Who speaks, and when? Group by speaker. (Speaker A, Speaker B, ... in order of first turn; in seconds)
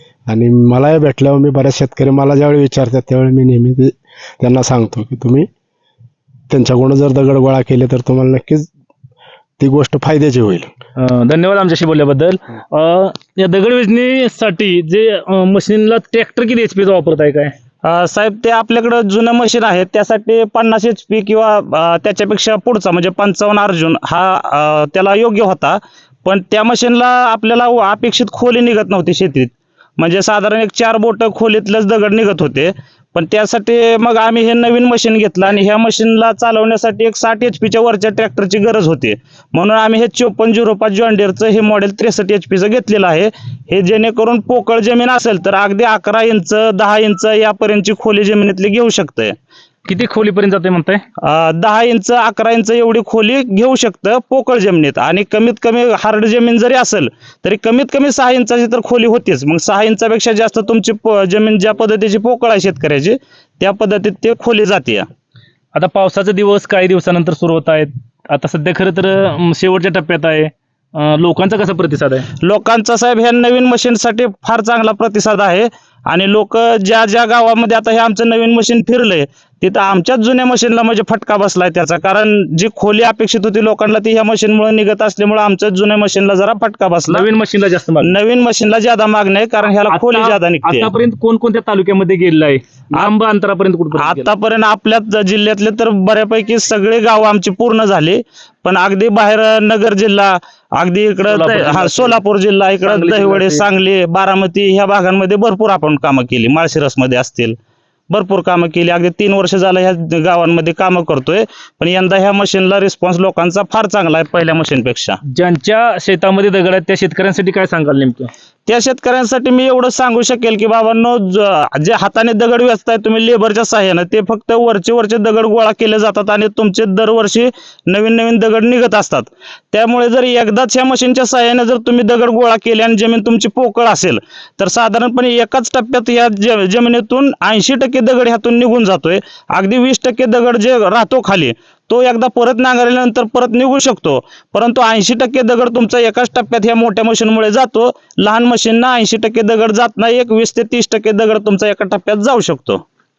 Speaker A: 0.3-5.5, 6.5-8.7, 9.6-10.7
Speaker B: 11.0-17.5, 49.9-51.0, 65.7-72.3, 87.1-88.1, 89.9-94.3, 101.3-102.2, 102.8-103.7, 115.3-118.3
Speaker C: 17.8-49.4, 51.2-65.0, 72.4-87.3, 88.0-90.9, 93.9-107.5, 108.1-115.2, 118.7-152.8